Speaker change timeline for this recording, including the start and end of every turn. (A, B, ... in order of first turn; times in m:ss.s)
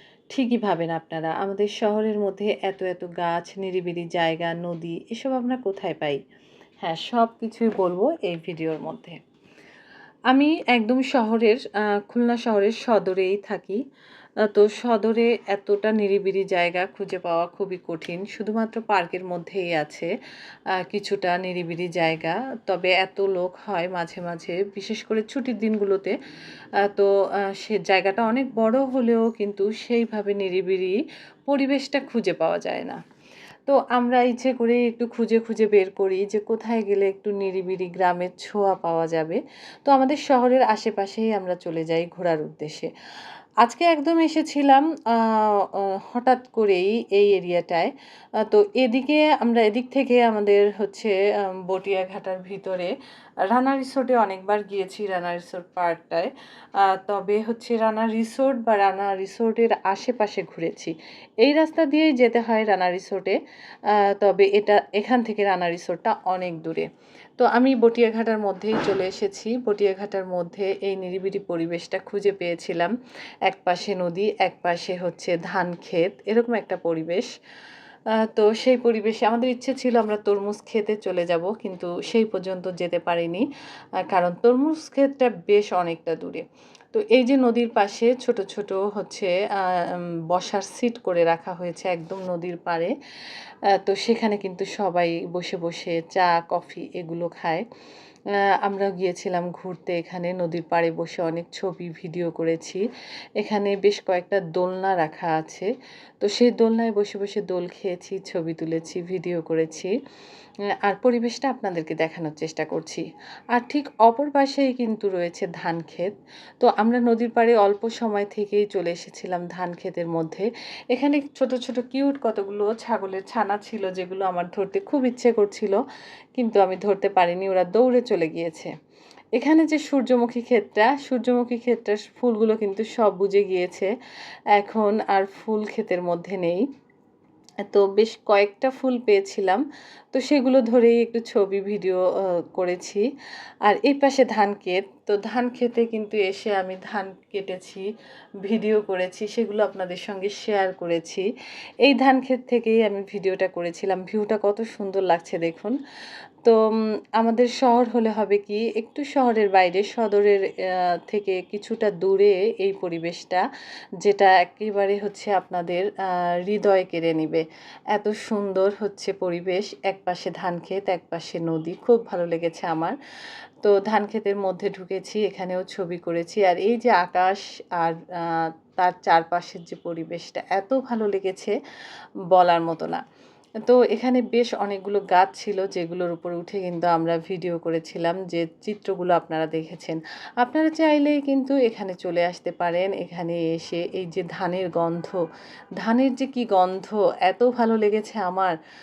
0:00.3-0:06.2 A
0:06.8-0:09.2 A
0:10.3-0:13.8 A
0:14.5-0:20.1 A
0:20.8-0:26.2 A
0:26.8-0:33.0 A
0:33.6-0:42.9 A
0:43.6-0:52.9 A
0:53.5-1:03.4 A
1:04.0-1:06.9 A
1:07.4-1:12.9 A
1:13.5-1:17.3 A
1:18.2-1:23.4 A
1:24.1-1:32.9 A
1:33.8-1:37.6 A
1:38.6-1:42.8 A
1:43.4-1:45.7 A
1:46.2-1:49.9 A
1:50.8-2:05.8 A
2:06.4-2:08.7 A
2:09.4-2:13.9 A
2:14.6-2:16.6 A
2:17.7-2:23.0 A
2:23.6-2:27.8 A
2:28.4-2:31.2 A
2:31.8-2:35.8 A
2:37.2-2:40.4 A
2:41.1-2:43.4 A
2:44.0-2:53.0 A
2:53.6-3:01.5 A
3:02.3-3:03.0 A
3:03.6-3:15.2 A
3:15.8-3:18.5 A